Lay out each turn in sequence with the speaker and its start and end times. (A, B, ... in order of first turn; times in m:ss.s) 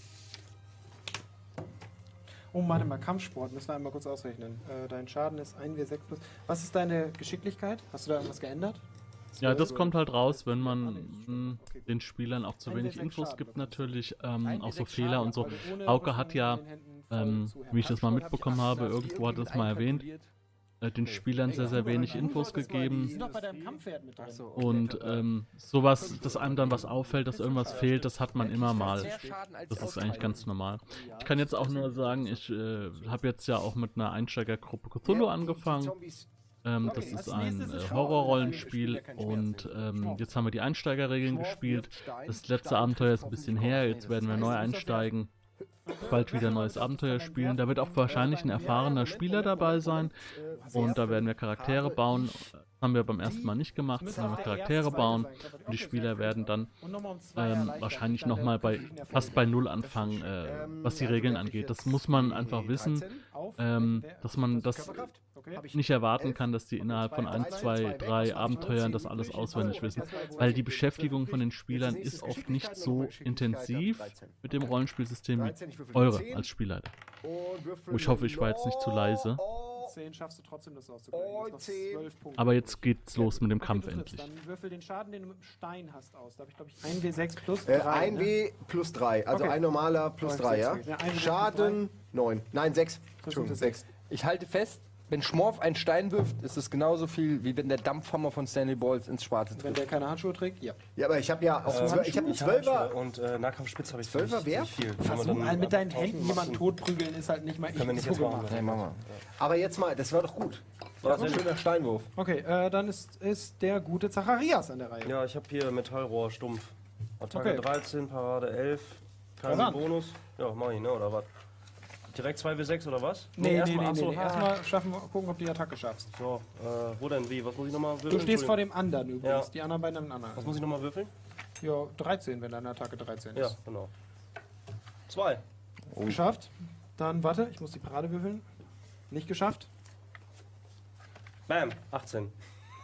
0:02.5-0:08.8 A
0:09.3-0:12.0 A
0:09.4-0:20.1 B
0:12.6-0:14.0 A
0:14.4-0:15.6 C
0:15.0-0:18.4 A
0:18.1-0:20.3 C
0:20.8-0:23.2 B
0:21.0-0:25.3 C
0:21.5-0:23.7 D
0:21.5-0:24.5 A
0:24.6-0:29.2 B
0:26.0-0:30.5 C
0:27.5-0:27.9 A
0:28.9-0:29.4 A
0:29.7-0:36.0 B
0:31.0-0:32.0 A
0:31.0-0:32.0 C
0:35.0-0:36.3 D
0:36.6-0:45.3 B
0:36.8-0:38.8 A
0:36.8-0:39.5 D
0:39.4-0:39.7 C
0:39.9-0:40.4 A
0:41.2-0:44.8 C
0:44.3-0:45.1 A
0:45.9-0:48.9 A
0:46.0-0:50.2 B
0:48.1-0:52.2 D
0:50.7-0:56.7 B
0:54.0-0:59.6 A
0:54.1-0:54.6 D
0:57.4-1:05.1 B
0:59.8-1:03.2 D
1:03.3-1:05.7 A
1:04.7-1:14.7 D
1:05.7-1:16.9 B
1:06.9-1:08.8 A
1:09.4-1:11.1 A
1:15.4-1:16.5 D
1:17.2-1:20.0 D
1:17.9-1:19.4 B
1:19.8-1:28.3 A
1:21.1-1:22.1 D
1:22.4-1:24.3 B
1:27.6-1:33.8 D
1:29.3-1:29.6 A
1:30.2-1:31.8 A
1:33.2-1:33.9 A
1:34.1-1:39.8 C
1:39.6-1:40.8 A
1:41.0-1:43.0 D
1:41.7-1:46.6 E
1:44.0-1:45.0 D
1:45.0-1:48.7 A
1:47.7-1:49.2 E
1:48.5-1:49.0 C
1:49.4-1:52.1 D
1:51.0-1:51.6 E
1:51.1-1:51.5 A
1:52.2-1:55.2 A
1:55.0-2:01.3 E
1:57.3-1:57.7 A
1:59.4-1:59.9 A
2:02.1-2:04.5 E
2:03.4-2:06.1 A
2:06.1-2:08.6 E
2:08.1-2:10.6 A
2:09.2-2:09.5 E
2:10.4-2:11.1 E
2:11.6-2:13.6 A
2:13.4-2:13.9 E
2:15.1-2:15.4 E
2:16.0-2:18.5 A
2:19.1-2:19.7 A
2:21.5-2:22.3 E